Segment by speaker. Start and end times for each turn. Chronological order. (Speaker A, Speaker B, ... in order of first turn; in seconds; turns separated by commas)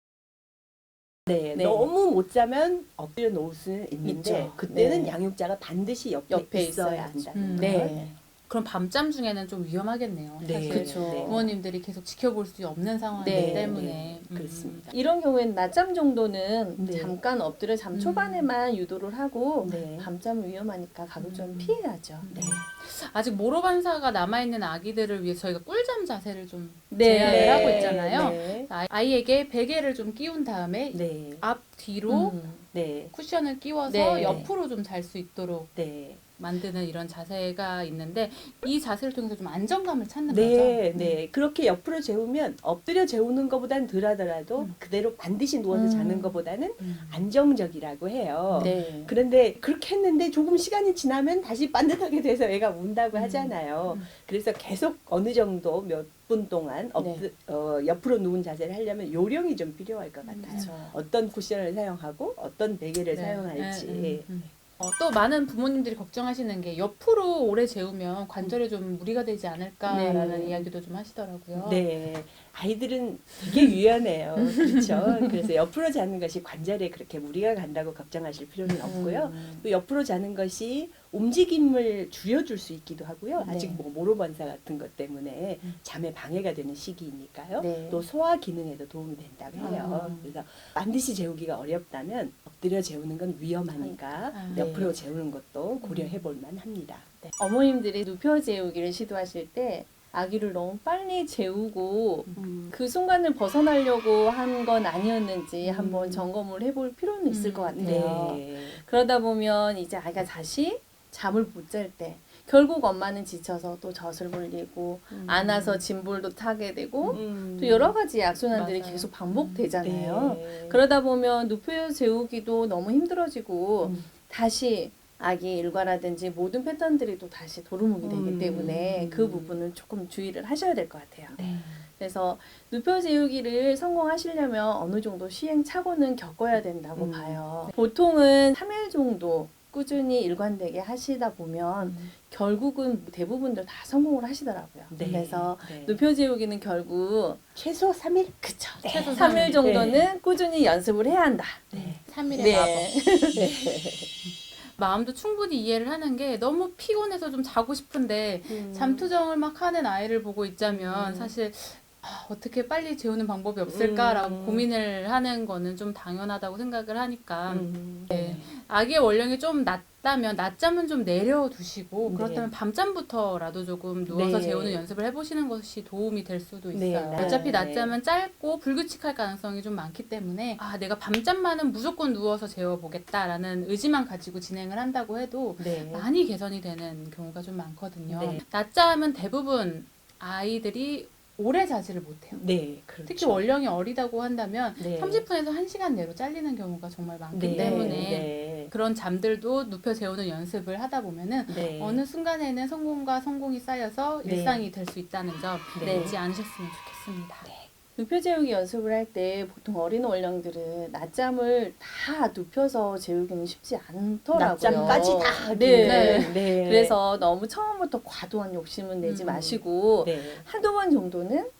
Speaker A: 1.3-8.0, Speaker B: 1.5-1.9, Speaker B: 4.0-5.2, Speaker B: 6.3-8.2, Speaker C: 7.3-14.9, Speaker A: 10.4-11.4, Speaker B: 10.6-11.5, Speaker B: 13.1-13.8, Speaker A: 13.2-14.9, Speaker B: 14.9-22.3, Speaker A: 16.8-17.2, Speaker C: 17.9-18.5, Speaker A: 19.6-20.1, Speaker C: 21.2-32.4, Speaker A: 22.3-22.6, Speaker B: 26.9-28.4, Speaker A: 27.2-28.7, Speaker A: 30.9-31.4, Speaker B: 32.1-32.6, Speaker A: 32.7-33.1, Speaker C: 33.1-35.7, Speaker B: 33.9-34.5, Speaker A: 34.2-34.5, Speaker A: 35.8-36.2, Speaker C: 36.4-40.8, Speaker A: 40.3-64.3, Speaker B: 45.7-46.4, Speaker C: 46.8-47.2, Speaker C: 48.5-48.8, Speaker B: 48.6-49.1, Speaker C: 53.1-54.1, Speaker B: 57.0-57.3, Speaker C: 60.2-60.7, Speaker B: 60.5-61.0, Speaker C: 63.1-71.9, Speaker B: 69.8-70.7, Speaker A: 71.5-97.1, Speaker C: 74.6-75.3, Speaker B: 78.8-79.6, Speaker B: 83.4-83.8, Speaker B: 87.6-88.0, Speaker B: 89.5-90.3, Speaker C: 89.6-90.2, Speaker B: 93.8-95.0, Speaker C: 94.3-94.7, Speaker C: 95.8-96.2, Speaker B: 97.2-147.4, Speaker A: 102.3-102.7, Speaker A: 105.6-106.2, Speaker C: 107.3-108.2, Speaker A: 107.8-108.8, Speaker A: 115.1-115.8, Speaker A: 117.1-118.0, Speaker C: 118.5-119.7, Speaker A: 119.8-120.8, Speaker A: 123.8-124.1, Speaker A: 128.0-129.6, Speaker A: 131.3-131.7, Speaker C: 131.3-131.8, Speaker A: 136.9-137.4, Speaker C: 141.8-142.1, Speaker A: 144.9-146.0, Speaker C: 145.0-145.3, Speaker A: 147.6-150.0, Speaker B: 148.4-151.7, Speaker C: 148.8-150.0, Speaker A: 151.7-152.5, Speaker C: 151.7-152.9, Speaker B: 152.3-153.6, Speaker A: 153.3-154.1, Speaker C: 154.2-192.4, Speaker A: 158.5-159.1, Speaker A: 160.6-161.3, Speaker A: 163.6-164.7, Speaker A: 167.5-168.5, Speaker A: 172.0-172.5, Speaker A: 174.1-174.9, Speaker A: 176.7-177.9, Speaker B: 177.1-177.6, Speaker A: 185.6-186.1, Speaker A: 188.1-188.4, Speaker A: 192.3-193.5, Speaker C: 193.0-207.5, Speaker A: 194.8-195.2, Speaker A: 197.3-198.7, Speaker B: 197.5-198.2, Speaker A: 201.5-202.0, Speaker A: 204.2-204.6, Speaker A: 205.7-206.2, Speaker B: 205.8-206.2, Speaker A: 207.4-207.7, Speaker B: 207.9-221.5, Speaker A: 214.3-216.9, Speaker C: 214.6-215.1, Speaker C: 215.8-216.3, Speaker C: 219.0-219.3, Speaker A: 219.2-220.4